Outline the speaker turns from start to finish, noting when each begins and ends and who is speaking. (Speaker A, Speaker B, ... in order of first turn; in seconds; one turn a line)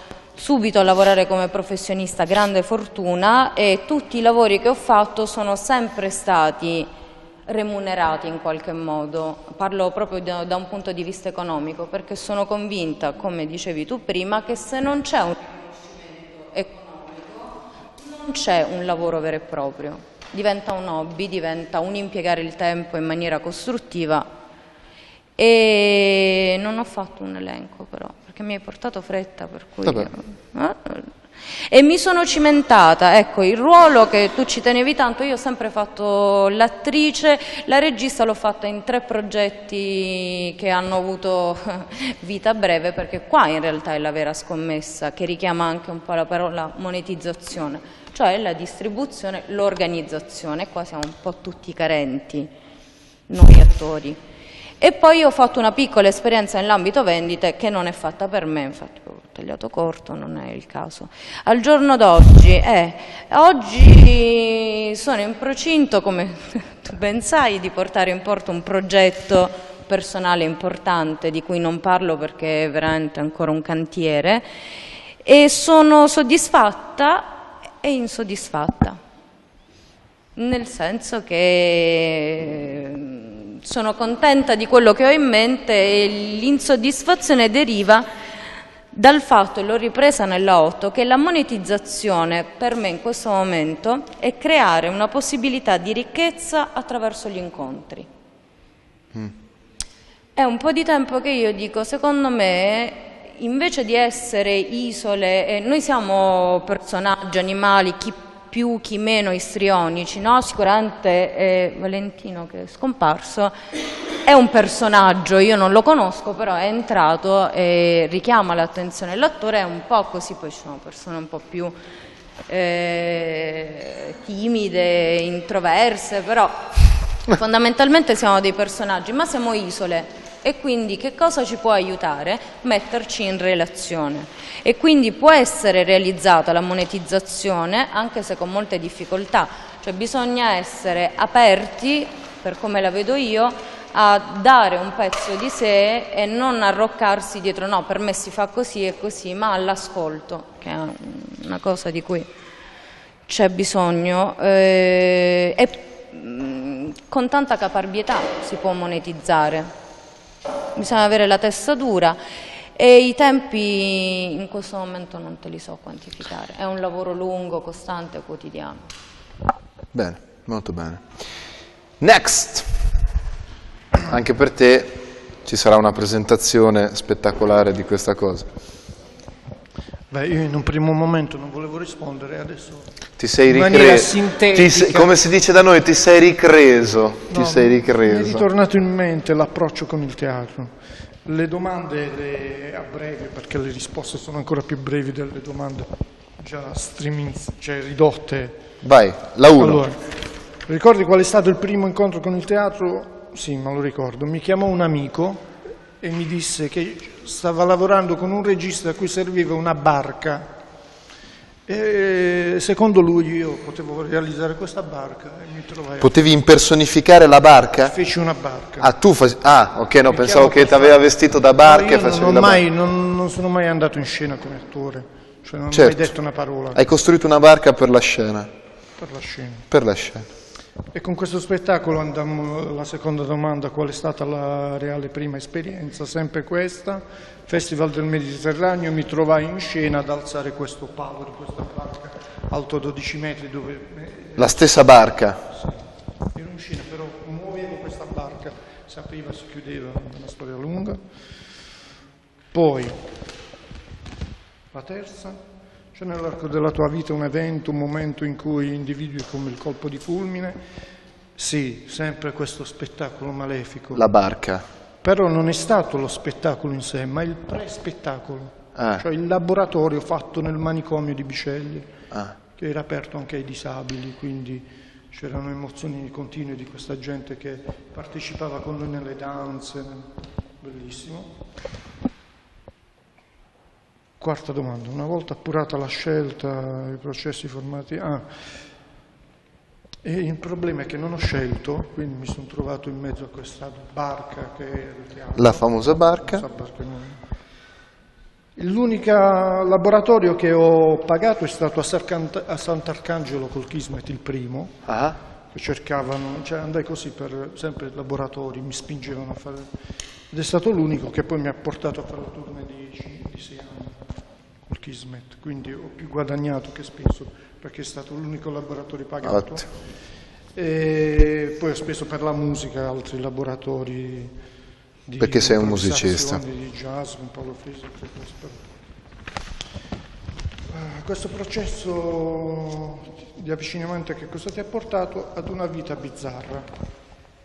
Speaker A: 0.3-6.9
Speaker A: 7.5-24.3
Speaker A: 25.4-52.5
Speaker A: 53.3-54.2
Speaker A: 54.8-74.5
Speaker A: 75.2-79.0
Speaker A: 80.3-88.1
Speaker A: 88.9-98.1
Speaker A: 100.3-113.6
Speaker A: 114.2-121.8
Speaker A: 122.5-126.7
Speaker A: 127.3-152.3
Speaker A: 153.3-159.7
Speaker A: 160.7-162.2
Speaker A: 162.7-168.9
Speaker B: 169.9-171.0
Speaker B: 172.0-172.8
Speaker B: 174.1-178.4
Speaker C: 180.1-182.9
Speaker B: 183.2-188.5
Speaker C: 183.5-185.1
Speaker C: 187.3-198.6
Speaker B: 198.8-199.8
Speaker C: 199.6-200.0
Speaker C: 200.6-205.5
Speaker C: 206.0-210.5
Speaker C: 211.7-216.1
Speaker B: 216.0-217.9
Speaker C: 217.8-218.9
Speaker B: 218.8-222.6
Speaker C: 220.0-226.8
Speaker B: 225.7-226.1
Speaker B: 226.7-228.5
Speaker C: 229.0-229.7
Speaker B: 229.7-230.3
Speaker C: 230.9-244.8
Speaker B: 244.4-245.4
Speaker C: 246.3-251.1
Speaker C: 252.5-253.0
Speaker C: 254.7-255.4
Speaker C: 255.9-260.6
Speaker C: 261.4-264.1
Speaker B: 263.9-264.6
Speaker C: 265.0-271.9
Speaker B: 268.7-269.0
Speaker C: 272.6-281.3
Speaker C: 284.2-288.3
Speaker C: 290.0-297.2
Speaker B: 295.3-296.4
Speaker C: 298.6-304.8
Speaker B: 304.9-305.2
Speaker C: 305.5-309.7
Speaker C: 310.3-314.0
Speaker C: 314.6-319.7
Speaker B: 319.2-319.6
Speaker C: 320.5-324.3
Speaker C: 325.1-328.7
Speaker B: 325.2-326.4
Speaker C: 330.7-336.7